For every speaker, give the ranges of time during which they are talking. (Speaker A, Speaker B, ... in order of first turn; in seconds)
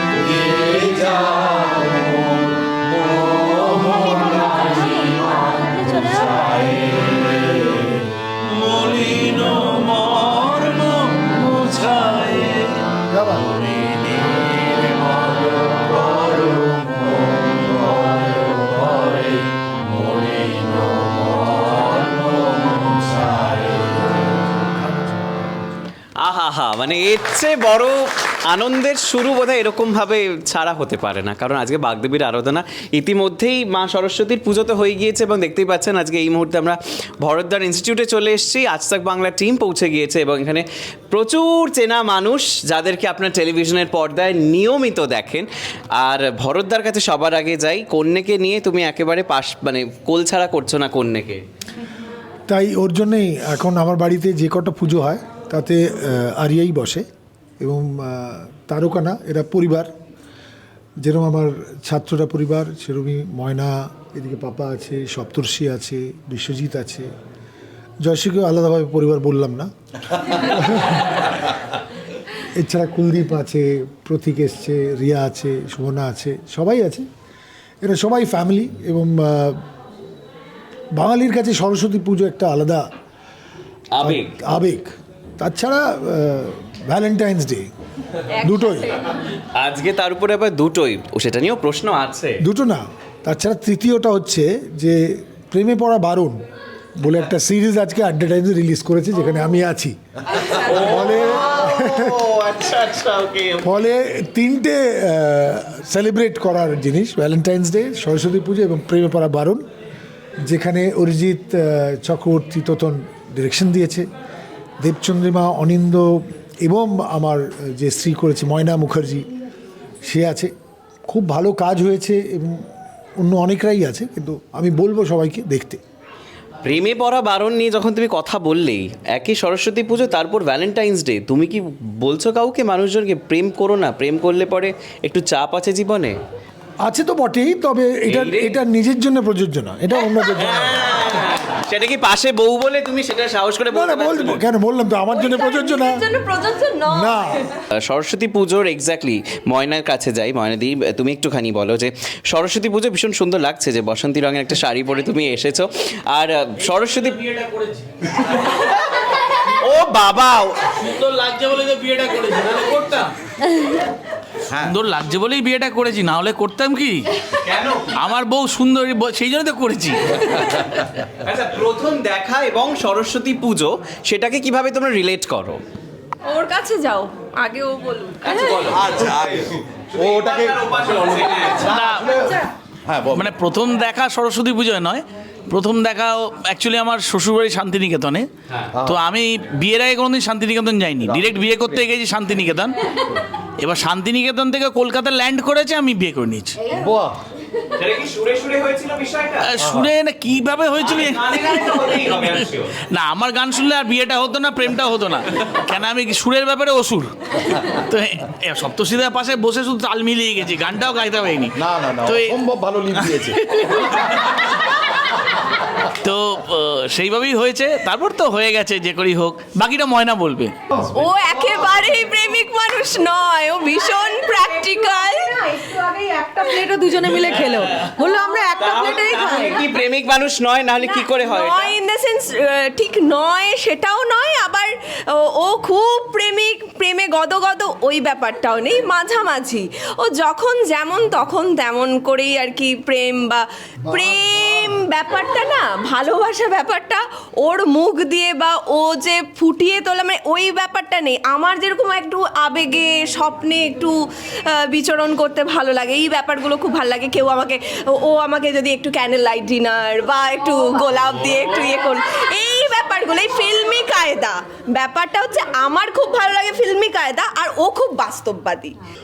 Speaker A: 0.6-1.4, 3.3-4.6, 10.2-12.2, 164.5-164.8, 178.7-182.3, 182.8-183.4, 188.8-189.0, 191.0-191.8, 196.7-197.2, 199.6-199.9, 211.6-213.4
Speaker B: 8.6-12.5, 160.8-163.1, 164.7-167.1, 168.0-170.6, 181.8-182.1, 183.2-188.3, 188.9-192.7, 193.6-196.6, 199.5-202.1, 202.9-207.1, 207.8-211.5, 216.0-220.5
Speaker C: 13.1-13.6, 52.5-57.0, 57.6-59.9, 61.0-67.1, 68.0-71.3, 72.5-77.1, 77.8-79.6, 81.0-82.8, 84.0-87.7, 88.4-88.9, 92.4-96.4, 97.0-99.9, 100.5-102.2, 103.6-109.6, 110.4-114.1, 114.8-119.3, 120.0-120.5, 121.1-122.6, 123.2-125.8, 136.8-140.9, 143.7-146.1, 146.8-147.5
Speaker D: 26.2-51.4, 83.9-84.4, 89.5-92.4, 100.5-103.7, 126.6-136.2, 138.1-138.6, 140.2-144.4, 147.7-157.4, 159.6-160.6, 167.5-167.8, 171.1-175.6, 178.2-178.8, 180.0-181.7, 197.7-199.6, 200.7-202.7, 228.6-231.7
Speaker E: 88.4-88.9, 145.1-147.4, 176.2-178.7, 220.8-225.4, 230.8-253.9, 254.5-268.7
Speaker F: 224.4-229.6